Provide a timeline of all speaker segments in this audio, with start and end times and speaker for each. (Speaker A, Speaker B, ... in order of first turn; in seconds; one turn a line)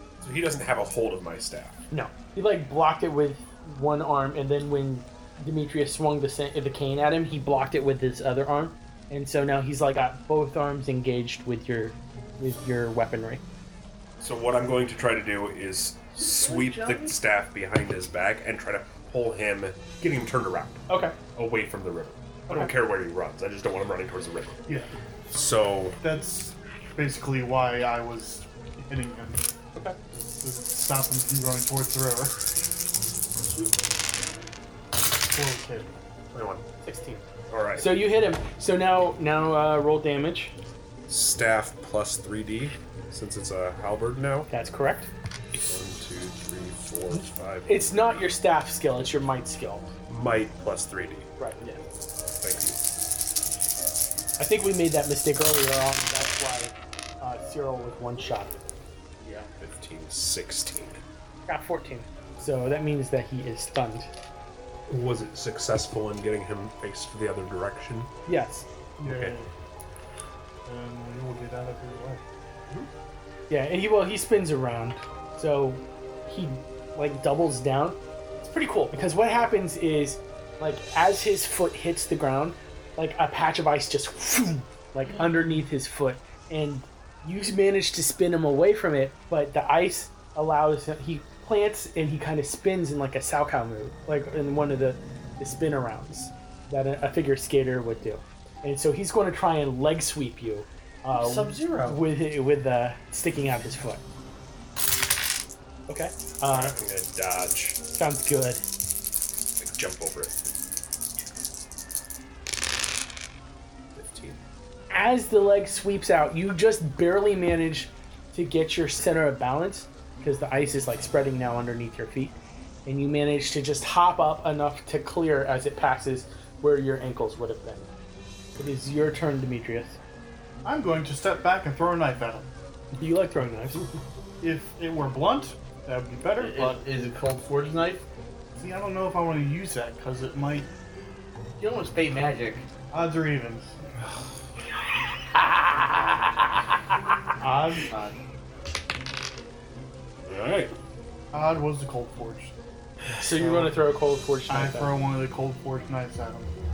Speaker A: 0.2-1.8
Speaker B: 1.9-13.4
Speaker A: 14.2-24.6
Speaker C: 16.1-17.1
Speaker B: 20.9-21.1
Speaker B: 22.5-22.7
Speaker D: 24.7-24.9
Speaker A: 25.3-26.0
Speaker D: 26.0-29.4
Speaker D: 30.1-32.4
Speaker D: 35.3-35.9
Speaker A: 36.3-36.6
Speaker B: 36.8-37.2
Speaker A: 37.5-37.9
Speaker B: 37.8-40.5
Speaker A: 41.1-44.5
Speaker B: 44.5-45.1
Speaker A: 45.5-47.8
Speaker B: 47.6-49.9
Speaker A: 50.1-51.3
Speaker A: 52.1-52.8
Speaker B: 54.4-58.6
Speaker C: 59.2-59.5
Speaker A: 59.6-61.0
Speaker B: 61.5-64.1
Speaker A: 64.9-68.1
Speaker B: 68.3-68.7
Speaker D: 69.0-69.5
Speaker A: 69.0-69.3
Speaker D: 70.6-72.2
Speaker B: 73.5-104.0
Speaker C: 101.1-102.0
Speaker B: 105.9-106.8
Speaker A: 106.5-107.8
Speaker B: 107.9-108.6
Speaker A: 109.6-110.5
Speaker A: 113.9-114.4
Speaker B: 114.9-127.9
Speaker B: 128.6-130.0
Speaker D: 130.6-132.5
Speaker B: 133.0-133.8
Speaker D: 134.4-136.8
Speaker C: 136.3-138.0
Speaker D: 138.6-140.7
Speaker C: 141.6-142.7
Speaker D: 142.9-143.9
Speaker D: 147.4-147.9
Speaker C: 147.9-148.2
Speaker A: 150.2-150.7
Speaker D: 151.3-152.6
Speaker B: 153.2-155.0
Speaker D: 153.3-153.8
Speaker D: 154.5-156.5